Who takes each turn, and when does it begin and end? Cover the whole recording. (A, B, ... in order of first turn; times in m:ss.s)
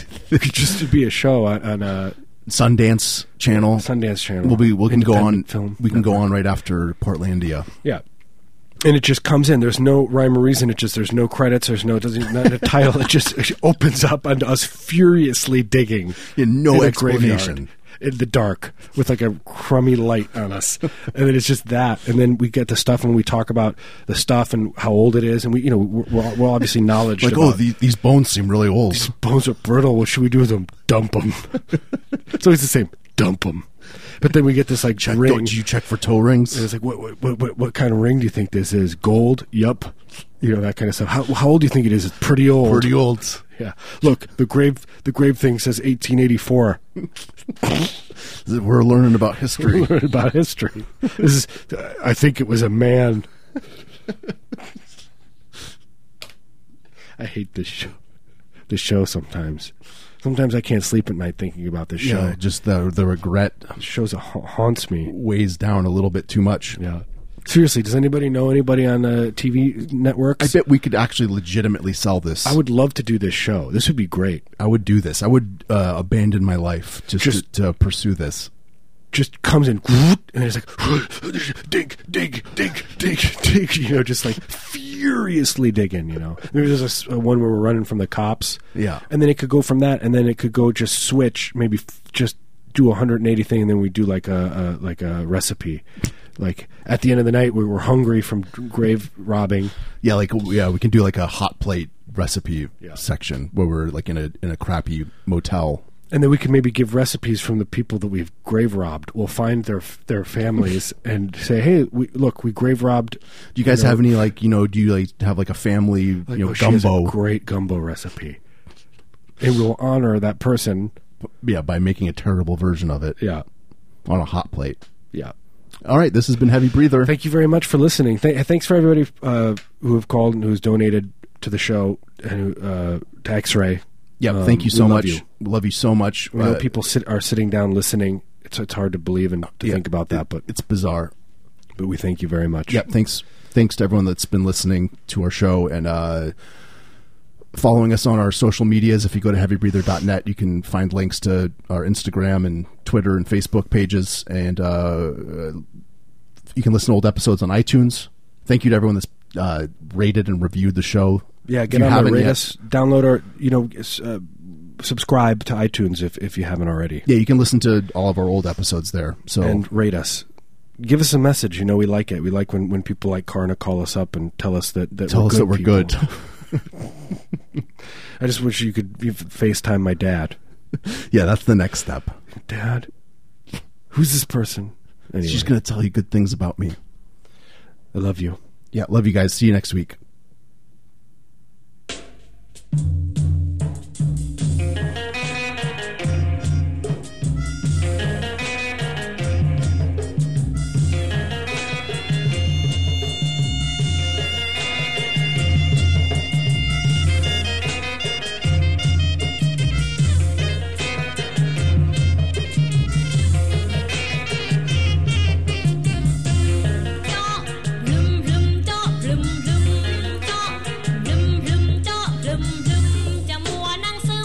0:00.3-0:02.2 A
0:02.5-0:03.9 B
0:03.5-0:06.2 A
0:04.4-0:07.7 B
0:08.8-0:27.6 A
0:16.3-0:17.7 B
0:27.2-0:29.1 B
0:28.9-0:35.6 A
0:34.9-0:36.7 B
0:36.5-0:43.0 A
0:42.6-0:43.4 B
0:43.6-0:46.8 A
0:48.3-0:49.9 B
0:49.6-0:53.3 A
0:57.2-0:58.0 A
0:58.7-1:02.4 A
1:02.0-1:03.8 B
1:03.8-1:05.1 A
1:05.1-1:06.8 B
1:06.8-1:10.6 A
1:10.4-1:12.6 B
1:12.4-1:14.4 A
1:14.6-1:18.5 B
1:17.2-1:17.4 A
1:19.1-1:35.9 A
1:28.8-1:29.0 B
1:36.4-1:39.7 A
1:40.0-1:45.8 B
1:46.1-1:54.0 A
1:53.6-1:57.2 B
1:56.3-1:58.4 A
1:59.4-2:00.9 A
2:01.2-2:03.2 B
2:03.2-2:03.4 A
2:04.1-2:04.8 B
2:05.8-2:07.1 B
2:07.0-2:15.2 A
2:14.2-2:16.7 B
2:16.3-2:20.4 A
2:19.6-2:21.1 B
2:21.8-2:22.8 A
2:22.7-2:26.4 B
2:27.5-2:35.6 B
2:36.5-2:42.5 B
2:41.5-2:47.0 A
2:47.1-2:49.6 B
2:49.4-2:50.3 A
2:50.8-2:56.0 A
2:55.1-2:56.6 B
2:58.2-3:00.4 A
3:00.8-3:02.2 B
3:02.5-3:02.9 A
3:03.9-3:05.5 A
3:05.2-3:06.8 B
3:07.9-3:08.4 A
3:08.7-3:10.0 B